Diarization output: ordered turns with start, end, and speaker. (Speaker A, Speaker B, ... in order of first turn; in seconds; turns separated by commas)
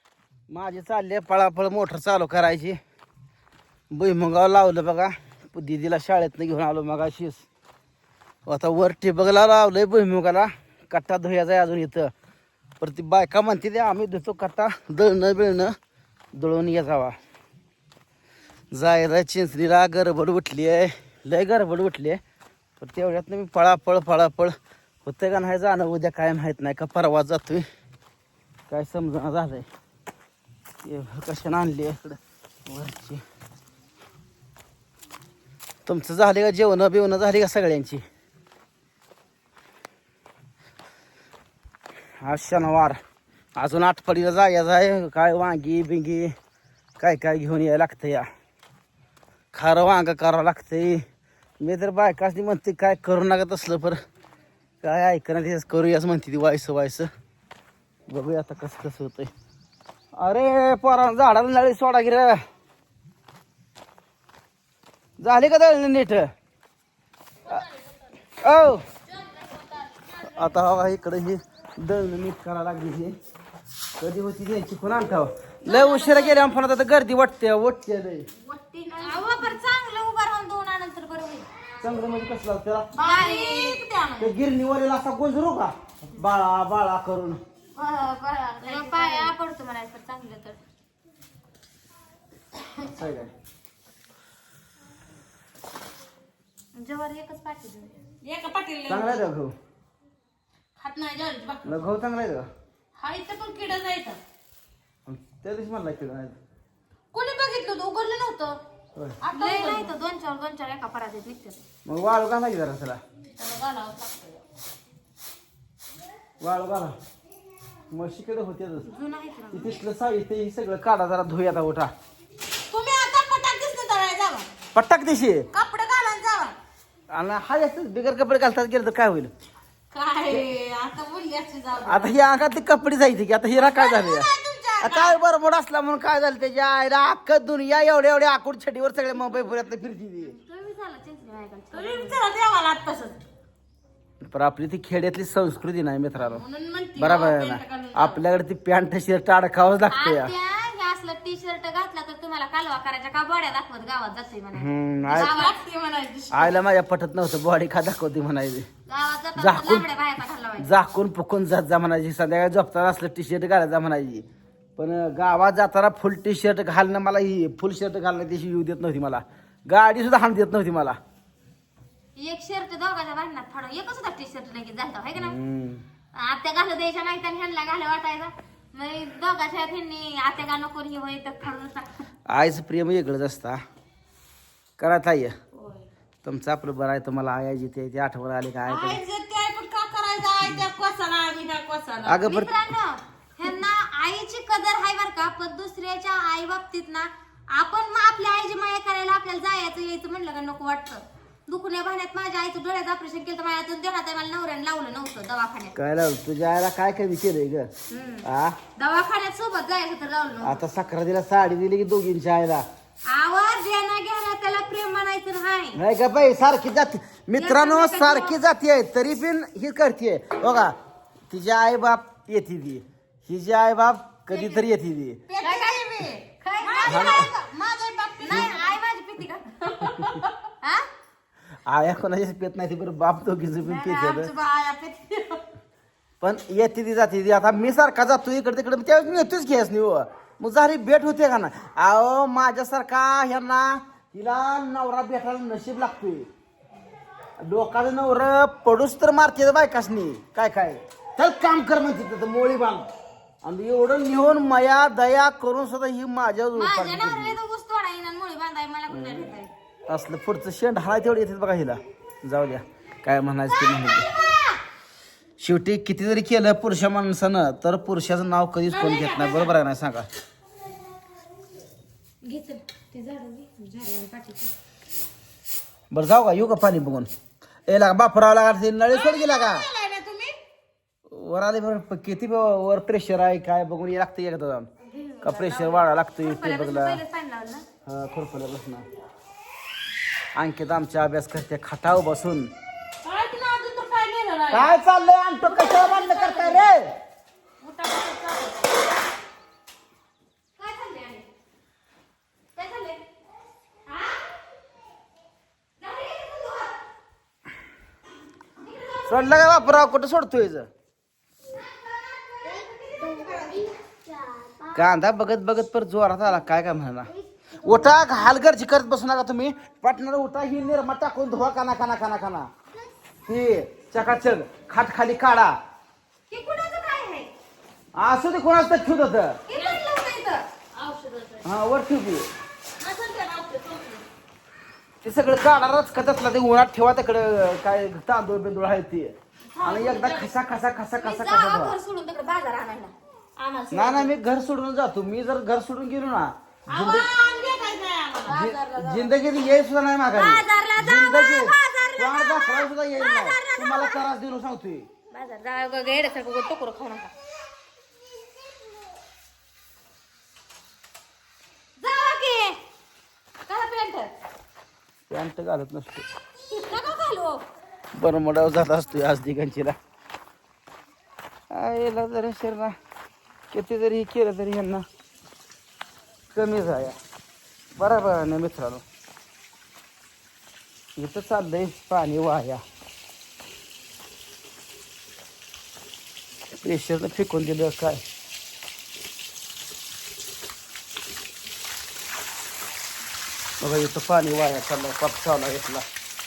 Speaker A: 0.5-2.8, Speaker A: 3.9-7.4, Speaker A: 8.4-12.1, Speaker A: 12.8-15.7, Speaker A: 16.4-17.1, Speaker A: 18.7-22.2, Speaker A: 22.8-27.6, Speaker A: 28.7-29.7, Speaker A: 30.8-33.2, Speaker A: 35.9-38.0, Speaker A: 42.2-43.0, Speaker A: 43.6-46.3, Speaker A: 47.0-48.3, Speaker A: 49.5-51.0, Speaker A: 51.6-54.0, Speaker A: 54.8-57.1, Speaker A: 58.1-59.3, Speaker A: 60.2-62.4, Speaker A: 65.2-66.3, Speaker A: 68.4-68.8, Speaker B: 69.1-70.2, Speaker A: 70.2-73.1, Speaker A: 74.0-78.2, Speaker C: 75.7-76.3, Speaker B: 78.6-79.5, Speaker C: 78.8-81.5, Speaker A: 81.8-82.9, Speaker B: 82.9-83.8, Speaker C: 83.0-84.3, Speaker A: 84.2-87.4, Speaker B: 87.8-89.3, Speaker C: 88.6-90.6, Speaker A: 92.7-93.3, Speaker C: 96.7-98.0, Speaker B: 98.2-99.3, Speaker A: 98.9-99.5, Speaker B: 100.8-101.8, Speaker A: 101.6-102.5, Speaker B: 103.0-104.2, Speaker A: 105.0-106.3, Speaker B: 107.1-108.6, Speaker B: 109.2-109.9, Speaker C: 109.3-111.6, Speaker A: 111.8-113.0, Speaker B: 113.4-114.4, Speaker A: 116.4-116.9, Speaker A: 117.9-118.9, Speaker C: 118.8-119.8, Speaker A: 119.5-121.9, Speaker B: 122.7-124.5, Speaker A: 124.7-125.5, Speaker B: 125.5-126.5, Speaker A: 127.1-129.3, Speaker B: 129.9-132.2, Speaker A: 131.8-140.3, Speaker B: 133.5-135.2, Speaker C: 140.2-142.2, Speaker B: 141.7-143.2, Speaker A: 144.2-146.4, Speaker B: 146.2-148.2, Speaker A: 147.0-150.3, Speaker C: 149.9-155.6, Speaker A: 154.5-155.3, Speaker B: 155.0-156.6, Speaker A: 156.3-158.7, Speaker C: 158.9-160.7, Speaker A: 159.4-159.8, Speaker A: 160.6-164.2, Speaker A: 164.8-171.0, Speaker C: 172.2-175.3, Speaker A: 175.1-175.8, Speaker C: 176.1-182.0, Speaker A: 182.3-183.6, Speaker A: 184.8-185.3, Speaker B: 185.5-185.8, Speaker A: 186.2-189.0, Speaker B: 188.6-192.2, Speaker A: 192.1-192.5, Speaker C: 192.2-205.8, Speaker A: 205.7-207.7, Speaker C: 207.9-210.6, Speaker A: 208.2-208.6, Speaker A: 210.4-212.6, Speaker C: 213.1-215.8, Speaker A: 215.7-220.8, Speaker C: 217.3-218.3, Speaker A: 221.3-225.2, Speaker B: 225.3-228.8, Speaker C: 225.4-227.3, Speaker A: 226.9-227.2, Speaker C: 228.2-230.8, Speaker B: 229.6-230.3, Speaker A: 231.7-234.3, Speaker B: 233.6-235.4, Speaker A: 236.2-246.3, Speaker A: 247.4-252.9, Speaker A: 253.4-257.4, Speaker C: 256.5-259.5, Speaker A: 258.9-259.3, Speaker A: 259.9-264.1, Speaker C: 263.5-264.6, Speaker A: 265.4-270.1, Speaker B: 268.7-269.5, Speaker C: 272.2-274.5, Speaker A: 275.9-277.1, Speaker A: 277.7-279.7, Speaker B: 278.9-280.4, Speaker A: 281.1-284.7, Speaker C: 284.9-287.6, Speaker A: 285.2-287.0, Speaker A: 287.8-288.8, Speaker A: 290.3-292.5, Speaker B: 293.0-294.7, Speaker A: 294.5-296.9, Speaker C: 295.4-296.7, Speaker B: 297.6-298.8, Speaker C: 300.6-301.2, Speaker C: 302.6-303.0, Speaker C: 303.9-304.2, Speaker C: 305.8-306.8, Speaker C: 308.6-309.9, Speaker A: 309.1-310.7, Speaker C: 312.3-314.7, Speaker A: 314.7-322.5, Speaker A: 323.3-325.5, Speaker C: 326.3-327.3, Speaker A: 327.9-329.4, Speaker C: 329.4-330.4, Speaker B: 329.5-329.8, Speaker B: 330.7-331.4, Speaker A: 331.4-332.3, Speaker B: 332.8-334.0, Speaker A: 335.0-341.8, Speaker B: 339.5-340.3, Speaker C: 341.0-342.9, Speaker B: 343.4-344.1, Speaker A: 343.7-347.1, Speaker B: 346.7-349.1, Speaker C: 347.0-348.5, Speaker A: 348.2-354.9, Speaker C: 350.1-354.1, Speaker C: 355.1-357.1, Speaker C: 361.8-362.6, Speaker C: 363.5-364.1, Speaker A: 365.1-366.1, Speaker C: 366.4-367.4, Speaker A: 367.9-369.7, Speaker A: 371.5-372.7, Speaker A: 373.5-374.8, Speaker A: 376.3-377.0, Speaker A: 377.8-378.8, Speaker A: 380.9-382.6, Speaker A: 386.6-388.0, Speaker A: 393.6-395.8